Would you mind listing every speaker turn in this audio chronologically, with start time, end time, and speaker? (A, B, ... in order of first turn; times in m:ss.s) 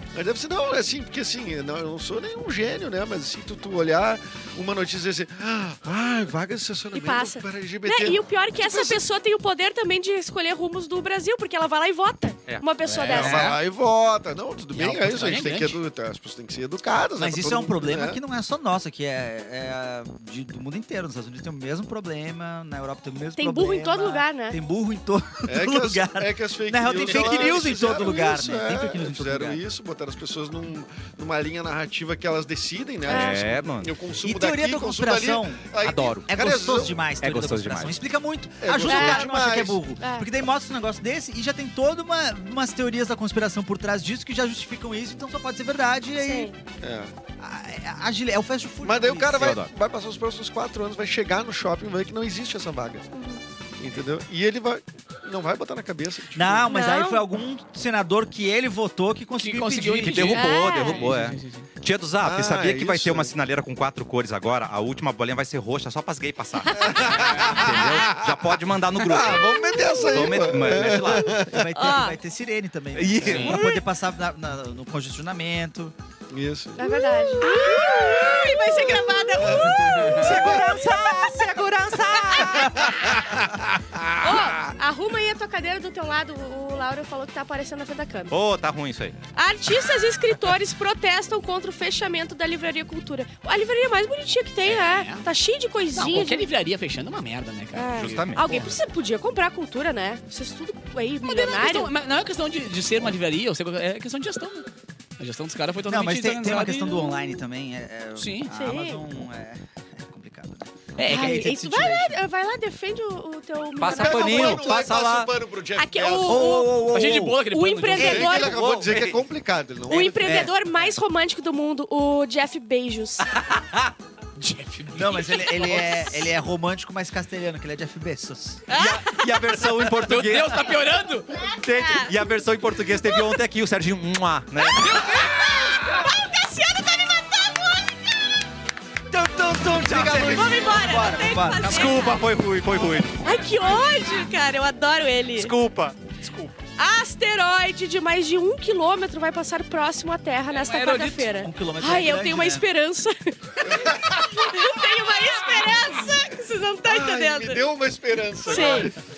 0:00.2-0:09.0 A
0:06.9-0:13.6 B
0:12.8-0:13.6 C
0:13.1-0:18.2 A
0:14.7-0:15.8 C
0:17.2-0:29.6 D
0:23.4-0:24.6 B
0:25.5-0:37.0 A
0:33.1-0:33.9 E
0:33.1-0:33.4 B
0:34.2-0:35.7 D
0:35.8-0:36.3 E
0:36.3-0:46.5 D
0:37.2-0:38.0 E
0:38.6-0:39.8 A
0:38.8-0:39.3 B
0:40.0-0:40.3 B
0:46.2-0:46.6 B
0:46.8-0:47.1 A
0:47.4-0:49.6 D
0:48.8-0:53.1 A
0:49.4-0:49.7 E
0:53.1-0:53.4 B
0:53.8-0:56.7 A
0:56.4-1:00.4 D
0:56.6-0:57.2 B
0:59.4-1:01.7 C
1:00.0-1:11.5 E
1:00.3-1:01.1 B
1:02.2-1:03.3 A
1:06.7-1:07.0 B
1:06.7-1:08.4 A
1:07.0-1:07.6 C
1:09.0-1:11.7 A
1:09.2-1:10.5 B
1:11.5-1:15.9 D
1:11.7-1:12.2 B
1:12.9-1:13.8 E
1:13.2-1:13.6 C
1:16.3-1:20.6 A
1:16.8-1:23.2 B
1:19.5-1:23.0 D
1:24.2-1:28.3 B
1:28.3-1:29.2 E
1:29.4-1:36.5 B
1:34.6-1:35.3 C
1:35.9-1:38.7 C
1:37.7-1:41.9 B
1:37.9-1:38.7 E
1:41.2-1:44.7 C
1:45.2-1:47.1 C
1:45.9-1:52.2 D
1:48.2-1:48.5 C
1:48.5-1:49.0 B
1:51.0-1:51.5 C
1:51.0-1:54.8 B
1:53.8-1:55.3 E
1:53.8-1:56.5 A
1:55.8-1:56.9 B
1:56.2-1:57.4 D
1:56.8-1:58.4 C
1:57.5-1:58.6 B
1:58.0-2:00.5 A
1:58.0-1:58.5 D
1:58.4-1:59.2 E
1:59.9-2:03.3 B
2:00.2-2:00.5 D
2:03.3-2:03.9 E
2:04.4-2:06.0 C
2:04.9-2:08.6 D
2:08.7-2:09.4 B
2:08.7-2:10.7 E
2:10.0-2:11.4 C
2:11.4-2:12.1 B
2:11.4-2:15.2 E
2:13.1-2:13.4 B
2:14.7-2:18.1 B
2:14.8-2:15.4 C
2:19.1-2:21.8 D
2:19.7-2:20.7 E
2:20.1-2:22.3 B
2:21.6-2:23.2 E
2:23.2-2:25.6 B
2:25.4-2:26.5 E
2:26.8-2:37.7 B
2:30.5-2:31.3 C
2:31.4-2:32.6 D
2:33.6-2:34.6 A
2:36.8-2:39.0 A
2:38.4-2:39.0 B